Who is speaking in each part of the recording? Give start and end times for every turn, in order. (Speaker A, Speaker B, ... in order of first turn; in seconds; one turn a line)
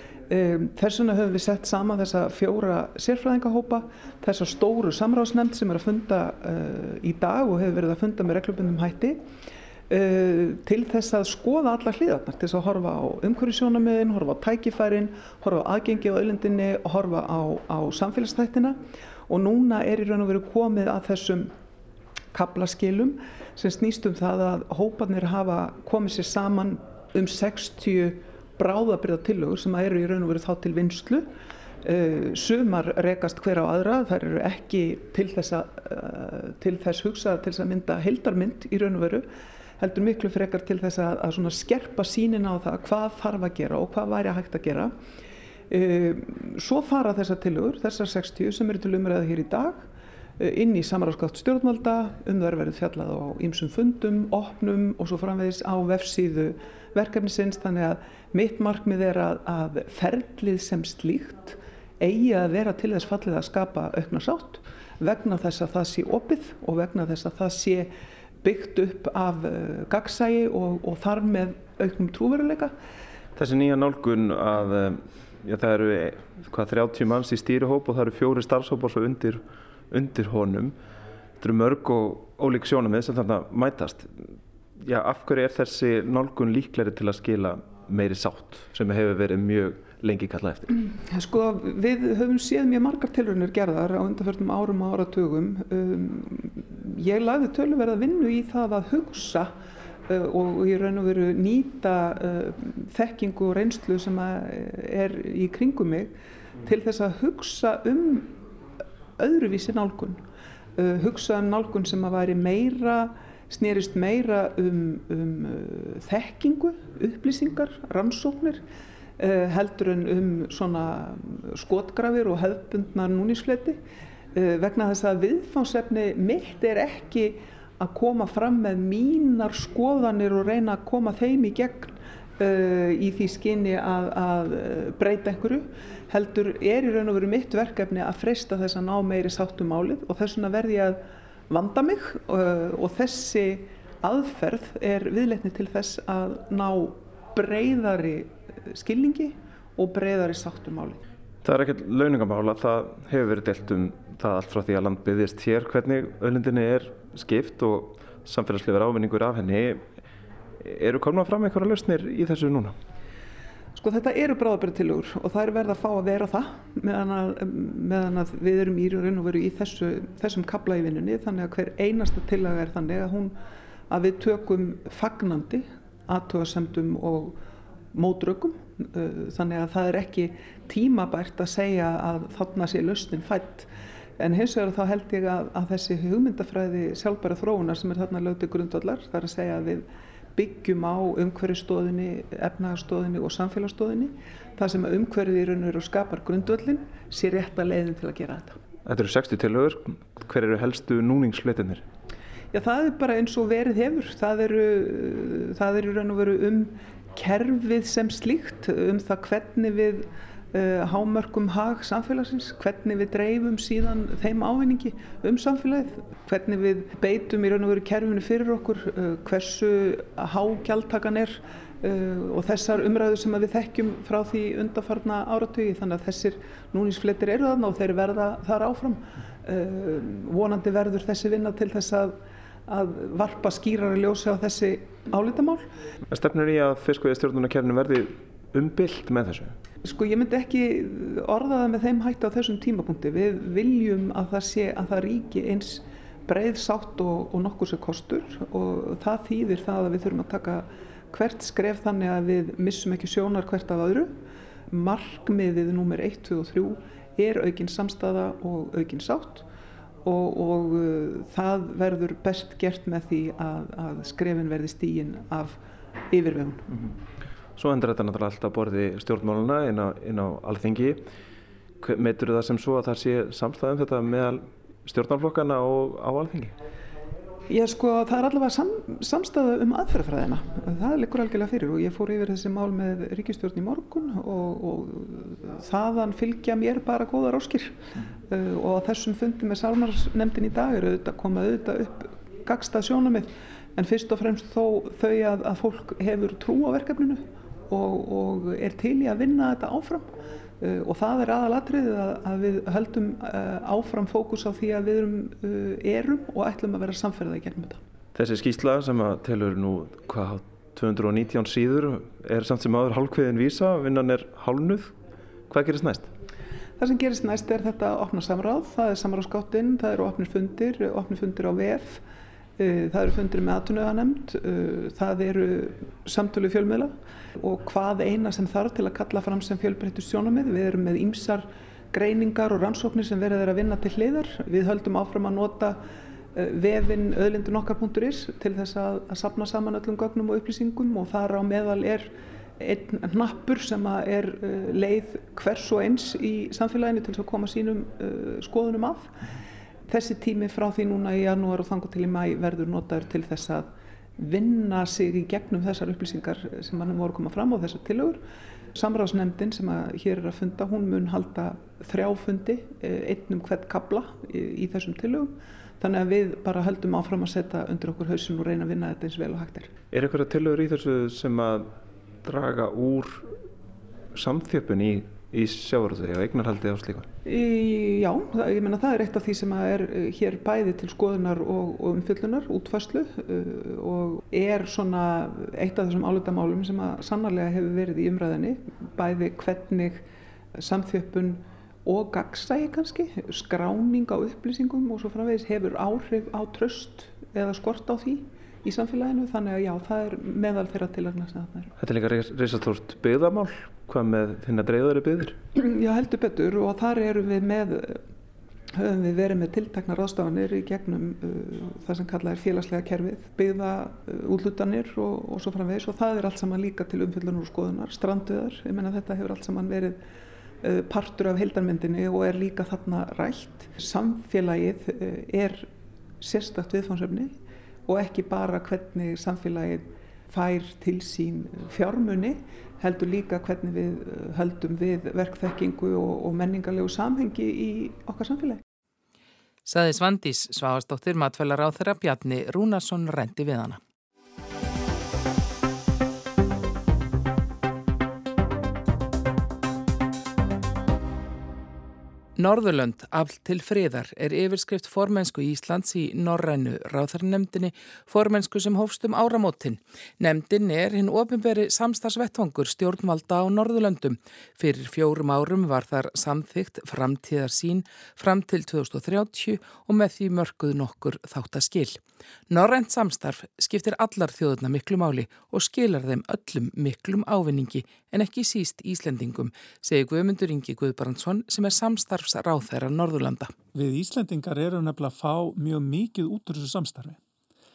Speaker A: 0.3-9.2
Speaker A: 9.9-21.5
Speaker A: 22.3-31.3
Speaker A: 31.8-39.2
Speaker A: 39.8-44.9
Speaker A: 45.7-49.8
Speaker A: 50.4-67.9
Speaker A: 68.4-72.7
Speaker B: 73.3-80.7
Speaker B: 81.4-90.7
Speaker A: 90.9-99.5
Speaker A: 100.1-108.3
Speaker A: 109.2-110.2
Speaker A: 110.8-118.6
Speaker A: 119.2-123.8
Speaker A: 124.3-151.0
Speaker B: 151.4-159.9
Speaker B: 160.6-162.7
Speaker A: 163.8-173.3
Speaker A: 173.9-177.3
Speaker A: 177.9-198.6
Speaker B: 198.8-201.8
Speaker A: 202.5-232.2
Speaker A: 232.7-235.7
Speaker B: 236.1-239.6
Speaker A: 239.8-254.1
Speaker A: 254.7-259.4
Speaker A: 260.0-265.6
Speaker A: 266.1-266.7
Speaker B: 267.6-271.0
Speaker B: 271.8-276.6
Speaker A: 277.5-307.8
Speaker B: 308.1-314.9
Speaker B: 315.5-316.1
Speaker A: 316.8-322.0
Speaker A: 322.6-335.8
Speaker A: 336.3-349.1
Speaker A: 349.9-353.7
Speaker A: 354.2-358.2
Speaker A: 358.7-369.7
Speaker B: 369.9-371.7
Speaker B: 372.2-373.3
Speaker B: 374.1-377.1
Speaker A: 377.2-390.0
Speaker A: 390.6-401.7
Speaker B: 401.8-405.4
Speaker A: 405.5-408.0
Speaker A: 408.7-420.0
Speaker A: 420.6-425.7
Speaker A: 426.2-427.3
Speaker A: 427.9-438.6
Speaker C: 439.6-443.8
Speaker C: 452.4-483.5
Speaker D: 483.7-487.2